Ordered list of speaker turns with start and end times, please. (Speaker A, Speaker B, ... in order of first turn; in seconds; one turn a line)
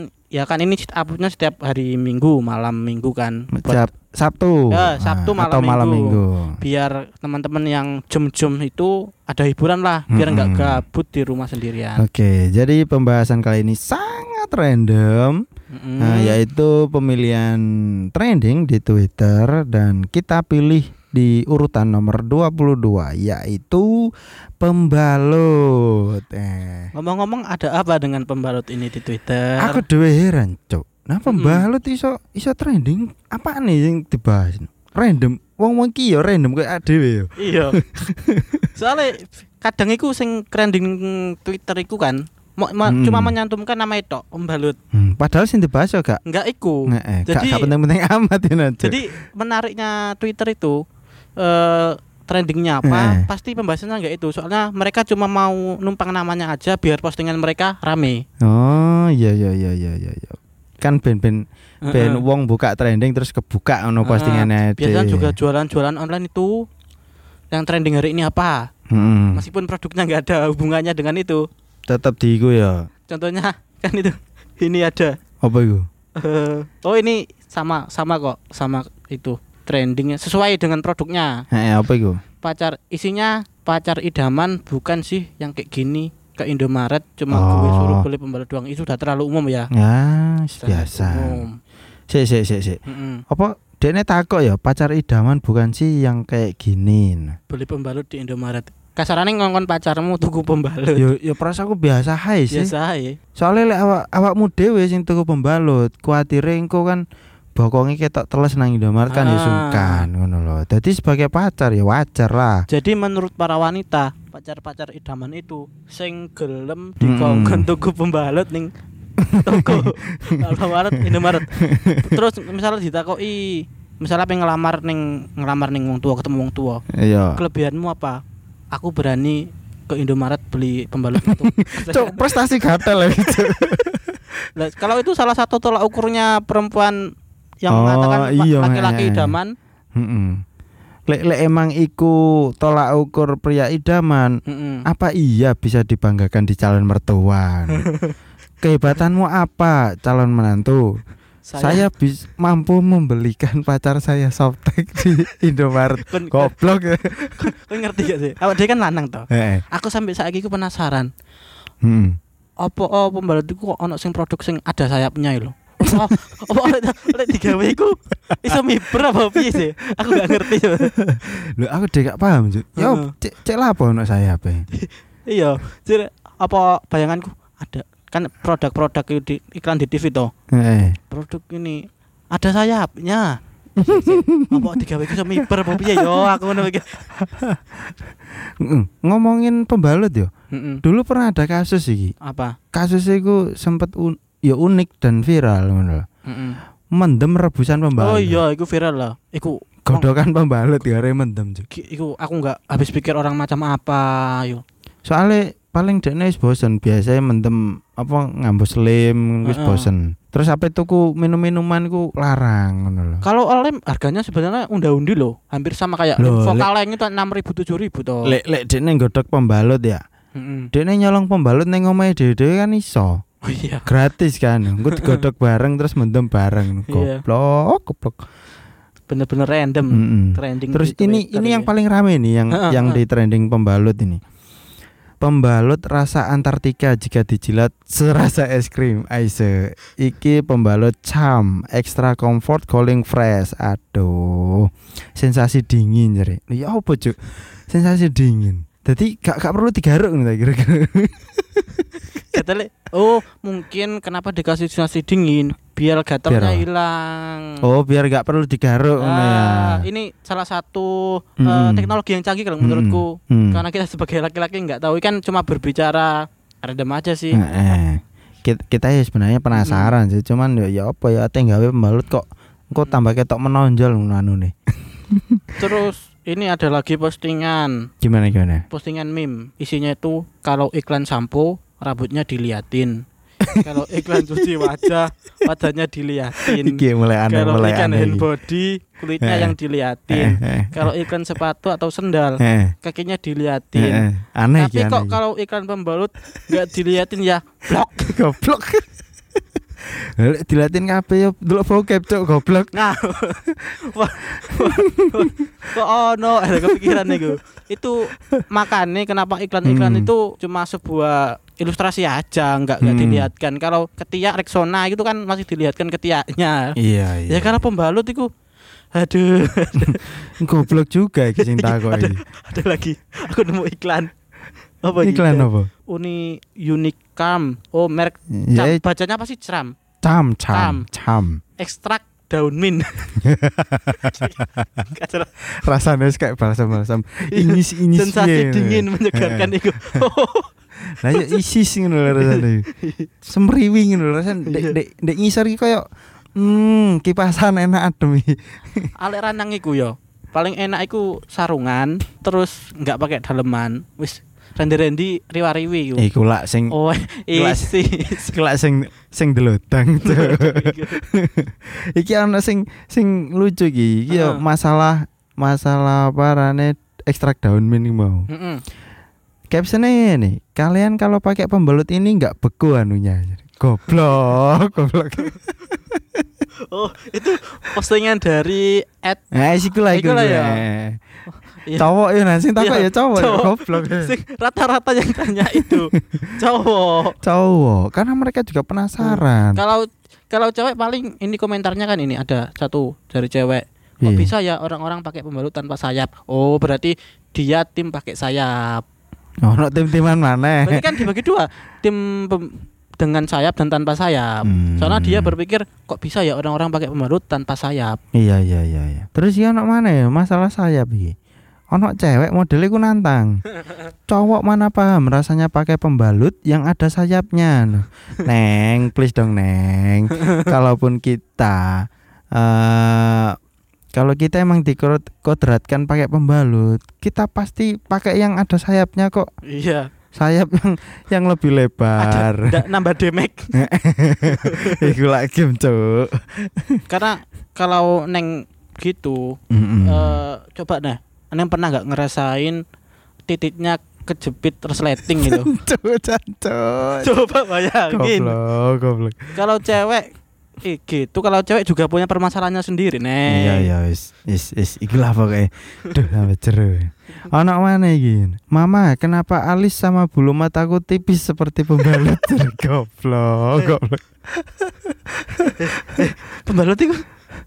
Speaker A: 0.3-3.9
Speaker B: 3.5-6.6
Speaker A: 4.7-12.0
Speaker B: 10.1-10.8
Speaker B: 12.0-15.4
Speaker A: 15.7-16.4
Speaker B: 16.0-26.9
Speaker A: 26.9-29.8
Speaker B: 29.6-38.7
Speaker A: 31.2-31.6
Speaker A: 37.4-37.8
Speaker A: 38.7-44.8
Speaker B: 42.8-43.3
Speaker B: 44.9-46.2
Speaker A: 46.2-47.7
Speaker B: 46.9-49.0
Speaker A: 48.8-50.8
Speaker A: 51.4-58.2
Speaker B: 52.8-53.2
Speaker B: 58.4-65.4
Speaker A: 61.8-62.2
Speaker A: 64.0-66.6
Speaker A: 67.5-68.6
Speaker B: 68.9-69.5
Speaker A: 69.3-71.4
Speaker B: 71.9-72.9
Speaker A: 73.1-75.2
Speaker B: 75.4-75.8
Speaker A: 76.2-81.4
Speaker B: 81.5-82.2
Speaker A: 82.4-89.7
Speaker B: 87.3-88.0
Speaker B: 89.7-91.4
Speaker A: 90.6-91.6
Speaker B: 92.1-97.4
Speaker A: 92.8-93.2
Speaker A: 97.5-101.1
Speaker B: 101.0-102.7
Speaker A: 102.5-103.2
Speaker B: 103.3-107.0
Speaker B: 107.5-112.6
Speaker A: 109.1-110.1
Speaker A: 112.7-118.7
Speaker B: 117.0-117.7
Speaker B: 119.2-122.1
Speaker A: 119.4-126.8
Speaker B: 126.9-127.4
Speaker A: 127.3-132.2
Speaker B: 131.2-134.5
Speaker A: 133.3-133.6
Speaker A: 134.5-137.0
Speaker A: 137.6-139.5
Speaker B: 137.7-139.3
Speaker B: 139.9-140.4
Speaker B: 141.1-147.9
Speaker A: 144.4-144.8
Speaker A: 147.7-148.1
Speaker B: 148.6-151.0
Speaker A: 151.4-151.9
Speaker B: 151.6-157.5
Speaker A: 156.1-156.6
Speaker A: 157.3-161.1
Speaker B: 159.3-159.6
Speaker B: 161.8-162.2
Speaker A: 162.6-170.9
Speaker B: 168.3-174.7
Speaker A: 172.8-173.1
Speaker A: 174.7-180.3
Speaker B: 180.5-181.0
Speaker A: 181.1-187.0
Speaker B: 183.8-186.5
Speaker B: 187.1-187.9
Speaker B: 188.6-190.3
Speaker A: 190.5-190.8
Speaker B: 190.8-192.1
Speaker A: 192.2-192.6
Speaker B: 192.7-196.1
Speaker A: 196.2-196.6
Speaker B: 196.9-198.4
Speaker A: 198.0-200.1
Speaker B: 199.9-201.7
Speaker A: 201.7-204.6
Speaker B: 205.0-213.2
Speaker A: 209.4-209.9
Speaker A: 213.2-218.4
Speaker B: 216.2-216.7
Speaker B: 218.2-220.0
Speaker A: 220.3-220.7
Speaker B: 220.7-223.2
Speaker A: 223.4-223.9
Speaker B: 223.8-228.2
Speaker A: 224.8-225.2
Speaker A: 226.9-227.2
Speaker A: 229.1-231.7
Speaker B: 229.9-234.2
Speaker A: 232.5-233.0
Speaker B: 235.2-252.0
Speaker A: 252.2-257.6
Speaker B: 256.2-256.6
Speaker B: 257.6-259.9
Speaker A: 259.0-267.4
Speaker B: 261.4-262.0
Speaker B: 262.6-263.6
Speaker B: 267.3-275.6
Speaker A: 269.5-269.9
Speaker A: 275.6-277.9
Speaker B: 278.0-278.6
Speaker A: 278.7-283.0
Speaker B: 283.4-284.9
Speaker A: 283.6-298.2
Speaker B: 286.4-288.3
Speaker B: 289.2-289.6
Speaker B: 290.1-290.9
Speaker B: 292.4-292.7
Speaker B: 293.7-295.2
Speaker B: 297.9-298.9
Speaker B: 299.9-303.7
Speaker A: 302.7-316.7
Speaker B: 304.4-305.7
Speaker B: 306.6-307.3
Speaker B: 309.6-310.1
Speaker B: 312.8-313.3
Speaker B: 316.8-317.6
Speaker A: 317.3-318.3
Speaker A: 318.9-320.3
Speaker B: 319.9-322.2
Speaker A: 321.4-324.1
Speaker A: 324.8-329.7
Speaker B: 325.0-325.7
Speaker B: 328.3-328.8
Speaker B: 330.0-331.4
Speaker A: 330.5-330.8
Speaker A: 331.6-333.2
Speaker B: 333.2-334.9
Speaker A: 334.0-335.3
Speaker B: 335.6-340.1
Speaker A: 337.3-340.5
Speaker B: 340.9-342.6
Speaker A: 341.1-341.4
Speaker A: 342.1-343.1
Speaker B: 343.2-345.8
Speaker A: 344.4-344.8
Speaker B: 346.4-348.9
Speaker A: 349.0-356.0
Speaker B: 356.0-356.7
Speaker A: 356.7-358.3
Speaker B: 357.3-368.3
Speaker A: 360.0-361.0
Speaker A: 364.1-364.4
Speaker A: 368.3-368.6
Speaker B: 369.5-376.3
Speaker A: 376.7-379.2
Speaker B: 379.3-381.0
Speaker A: 379.9-380.6
Speaker A: 381.5-381.9
Speaker B: 381.8-384.1
Speaker A: 382.6-387.2
Speaker B: 385.4-386.3
Speaker B: 387.2-389.6
Speaker A: 389.0-398.8
Speaker B: 394.0-394.3
Speaker B: 399.4-401.0
Speaker A: 400.6-408.0
Speaker B: 404.4-405.4
Speaker B: 408.1-411.1
Speaker B: 411.7-413.4
Speaker B: 414.1-423.4
Speaker B: 423.9-429.3
Speaker A: 429.4-429.9
Speaker B: 430.1-432.6
Speaker A: 432.0-433.6
Speaker B: 433.5-436.8
Speaker A: 434.3-434.9
Speaker A: 436.9-442.6
Speaker B: 439.5-440.2
Speaker A: 443.3-445.5
Speaker B: 445.2-447.2
Speaker A: 447.0-448.4
Speaker B: 447.9-449.4
Speaker A: 449.3-450.1
Speaker A: 450.6-453.7
Speaker B: 453.3-466.0
Speaker A: 465.6-467.0